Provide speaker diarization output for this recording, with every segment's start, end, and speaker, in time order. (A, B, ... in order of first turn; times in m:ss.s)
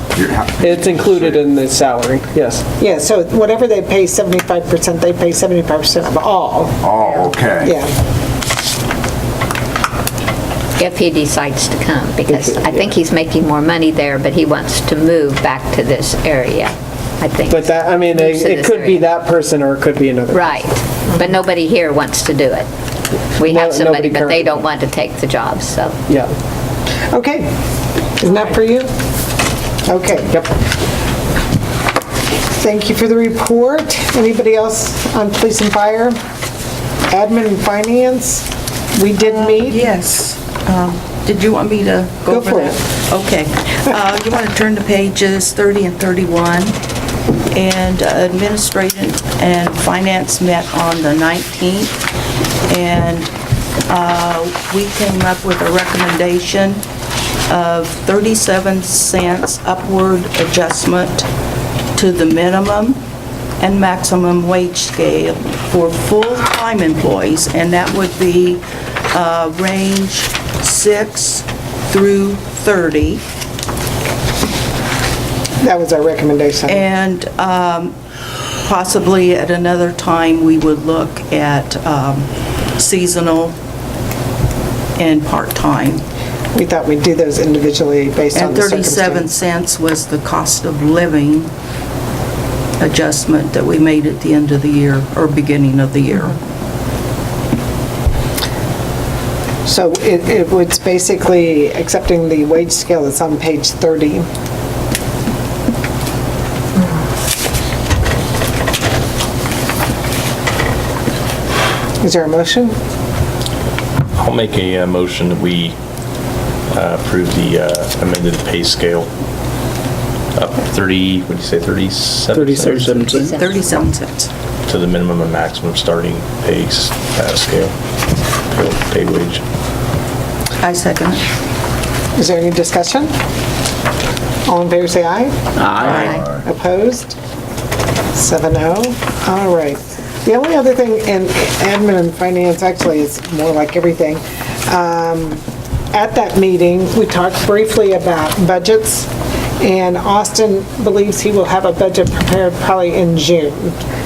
0:00.1-0:01.4 A
0:00.6-0:02.6 B
0:02.8-0:06.8 C
0:06.8-0:07.8 A
0:07.6-0:07.9 C
0:10.8-0:19.1 D
0:12.3-0:12.9 B
0:17.5-0:20.5 B
0:20.3-0:22.7 D
0:23.4-0:26.0 D
0:23.4-0:24.6 B
0:26.1-0:26.3 B
0:27.1-0:27.5 C
0:28.2-0:28.9 C
0:29.8-0:30.4 C
0:32.6-0:36.2 C
0:37.1-0:39.8 C
0:39.2-0:46.8 E
0:42.3-0:42.8 C
0:47.5-0:52.0 E
0:52.7-0:53.3 E
0:53.9-0:56.8 E
0:57.5-1:01.3 E
1:01.9-1:03.0 E
1:03.6-1:13.2 E
1:15.6-1:16.8 C
1:16.7-1:18.0 E
1:18.6-1:23.6 E
1:25.0-1:26.0 E
1:26.5-1:29.3 C
1:28.3-1:31.5 E
1:32.8-1:36.4 E
1:39.6-1:44.2 C
1:52.0-1:52.7 C
1:54.1-1:55.7 F
1:56.7-1:59.1 F
2:00.4-2:03.3 F
2:02.3-2:03.2 B
2:03.0-2:03.8 D
2:03.2-2:04.3 E
2:04.6-2:07.7 F
2:08.5-2:09.4 F
2:10.6-2:11.2 E
2:12.2-2:13.1 C
2:14.4-2:17.2 C
2:15.7-2:16.2 E
2:15.9-2:16.4 A
2:18.1-2:25.4 C
2:25.9-2:33.8 C